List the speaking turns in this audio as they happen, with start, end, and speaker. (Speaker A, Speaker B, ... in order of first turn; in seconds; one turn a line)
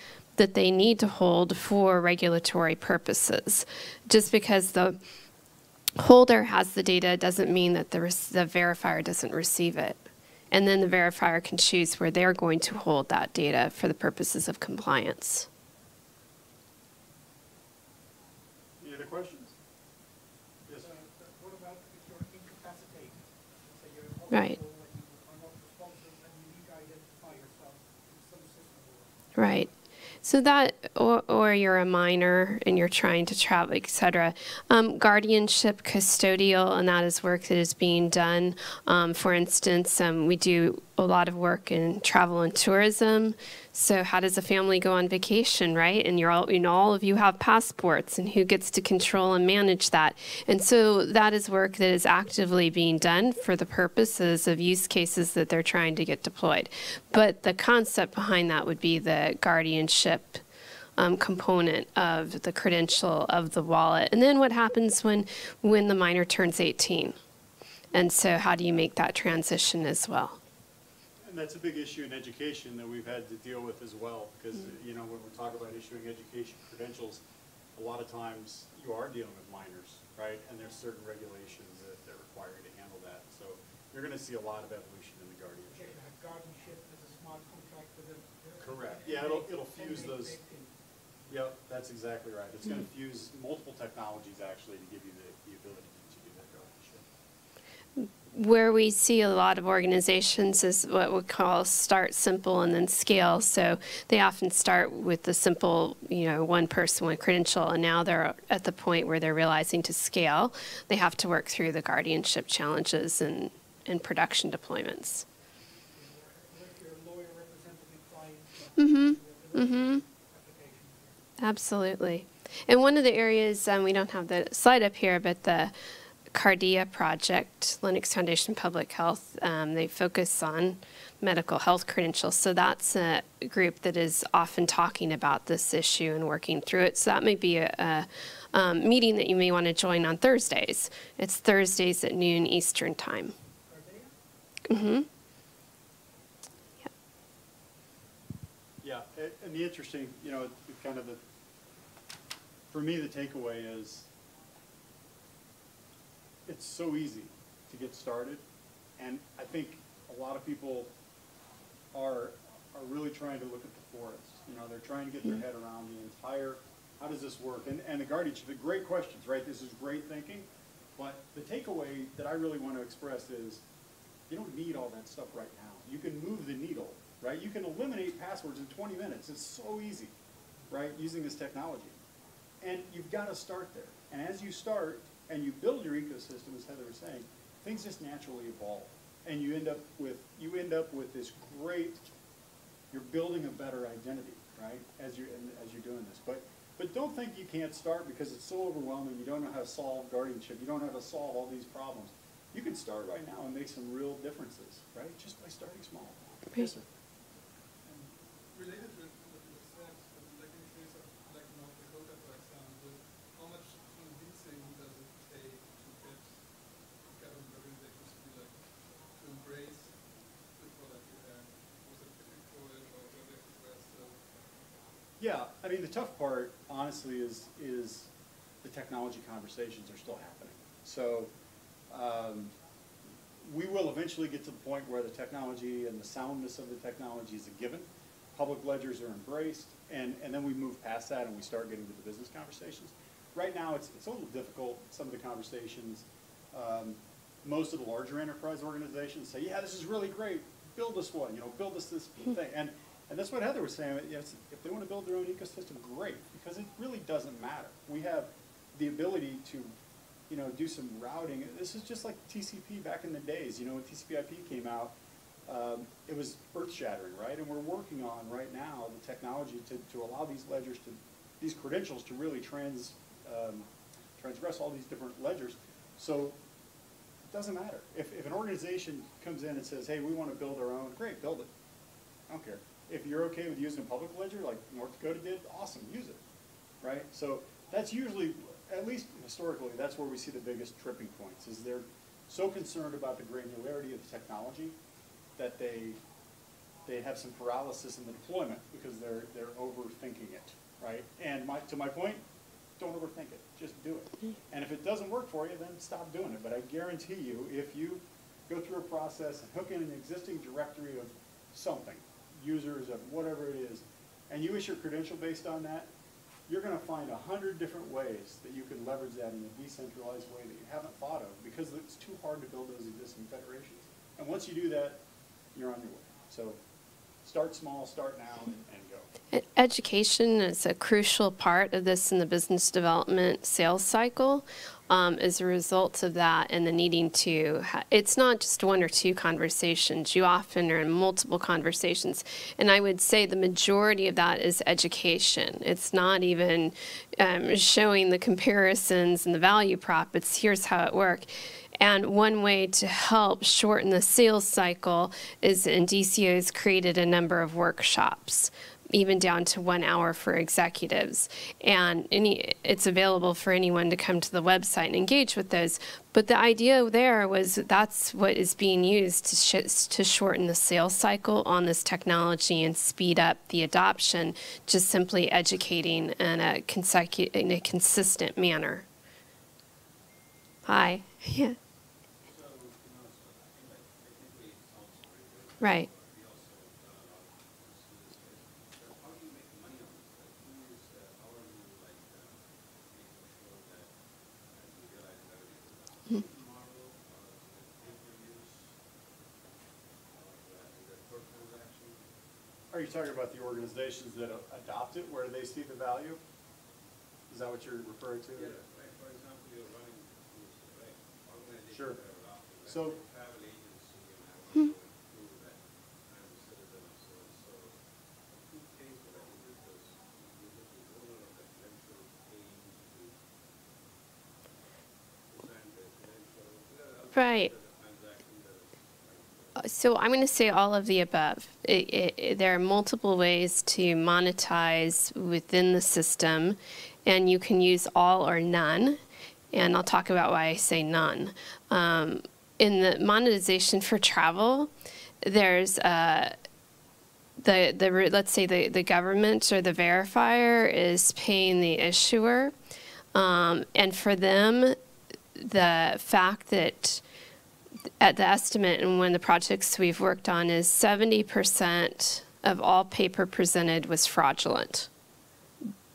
Speaker A: 0.4-5.0
Speaker A: 6.0-15.5
Speaker B: 18.8-19.6
Speaker C: 20.8-29.3
Speaker A: 24.3-24.6
Speaker A: 29.4-29.7
Speaker A: 30.2-60.4
Speaker A: 61.0-67.2
Speaker A: 67.9-70.4
Speaker B: 71.2-77.2
Speaker B: 77.8-85.9
Speaker C: 85.7-90.7
Speaker B: 88.6-90.4
Speaker B: 91.3-97.0
Speaker A: 98.0-115.2
Speaker C: 116.0-121.2
Speaker A: 118.8-120.0
Speaker A: 121.4-125.7
Speaker A: 126.3-143.3
Speaker C: 143.7-144.1
Speaker A: 144.7-145.1
Speaker B: 148.8-151.2
Speaker B: 152.7-154.1
Speaker B: 156.5-158.4
Speaker B: 159.0-160.9
Speaker B: 161.9-173.6
Speaker B: 174.3-180.1
Speaker B: 180.7-181.9
Speaker B: 182.6-192.1
Speaker B: 192.9-206.9
Speaker D: 207.8-220.0
Speaker D: 220.5-224.2
Speaker B: 225.2-228.1
Speaker B: 228.6-231.3
Speaker B: 231.9-232.5
Speaker B: 233.4-259.7
Speaker B: 260.3-276.4
Speaker B: 277.3-281.5
Speaker B: 282.3-286.2
Speaker B: 286.8-294.8
Speaker B: 295.4-296.0
Speaker B: 296.9-302.2
Speaker B: 302.8-315.9
Speaker B: 316.5-325.0
Speaker B: 325.5-326.6
Speaker B: 327.2-329.1
Speaker A: 329.3-351.3
Speaker A: 351.8-378.9
Speaker A: 380.6-381.6
Speaker E: 382.2-398.8
Speaker A: 385.6-385.9
Speaker E: 400.1-402.1
Speaker B: 402.7-406.2
Speaker B: 407.3-408.5
Speaker E: 408.3-423.2
Speaker B: 411.7-412.0
Speaker B: 412.7-413.0
Speaker E: 425.3-429.7
Speaker A: 427.1-427.5
Speaker A: 429.6-439.0
Speaker A: 439.5-444.7
Speaker A: 445.2-446.3
Speaker A: 447.4-452.5
Speaker A: 453.1-454.8
Speaker A: 455.4-457.0
Speaker A: 458.0-464.9